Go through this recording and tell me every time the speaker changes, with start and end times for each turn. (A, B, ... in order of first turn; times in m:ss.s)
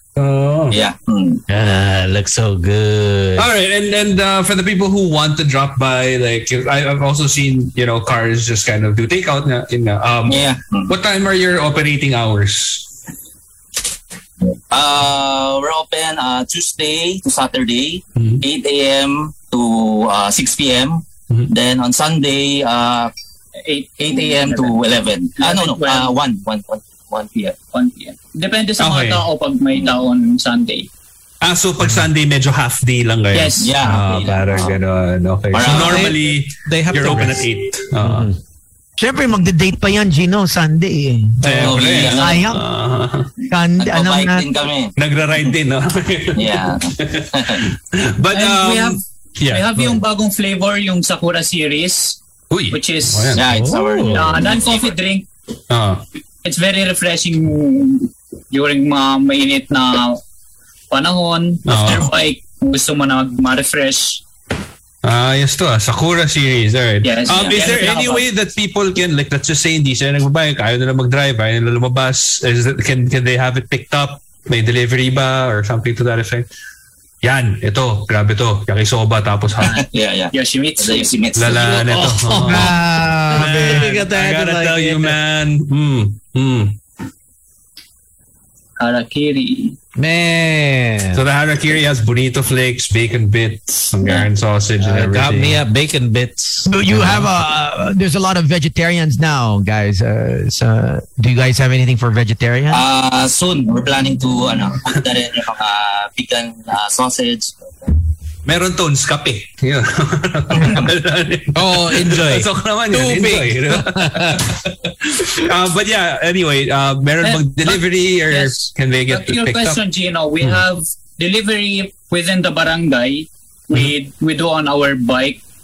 0:00.2-0:00.8 A
0:00.7-0:01.4 B
0:01.5-0:03.5 C
0:03.4-0:12.8 A
0:10.3-0:11.0 B
0:14.7-0:23.1 B
0:23.7-0:24.8 D
0:24.0-0:27.6 B
0:25.4-0:26.1 D
0:27.7-0:30.9 D
0:28.8-0:29.2 A
0:31.4-0:38.3 A
0:33.3-0:34.2 D
0:33.6-0:34.8 B
0:35.5-0:36.2 B
0:35.6-0:38.4 C
0:39.0-0:42.6 E
0:41.4-0:43.3 A
0:41.5-0:42.5 B
0:43.5-0:44.5 E
0:43.8-0:45.5 B
0:45.0-0:50.0 A
0:46.4-0:47.7 B
0:48.3-0:52.2 D
0:52.5-0:53.4 A
0:52.7-0:53.4 D
0:53.3-0:54.9 B
0:53.4-0:54.3 C
0:54.0-0:55.3 D
0:55.7-0:56.0 A
0:56.4-1:00.2 D
1:00.9-1:04.2 D
1:01.6-1:02.1 A
1:05.0-1:16.5 A
1:07.0-1:08.2 D
1:17.2-1:19.7 A
1:19.6-1:21.8 D
1:19.7-1:21.8 B
1:21.4-1:22.7 A
1:21.9-1:22.7 C
1:22.4-1:24.0 E
1:23.3-1:26.8 A
1:23.3-1:25.2 C
1:28.8-1:29.7 D
1:30.0-1:31.2 C
1:31.1-1:35.6 A
1:34.0-1:34.3 D
1:34.8-1:37.3 C
1:36.7-1:42.8 E
1:42.7-1:48.0 B
1:48.4-1:59.8 A
1:51.5-1:54.4 C
1:57.2-2:05.4 D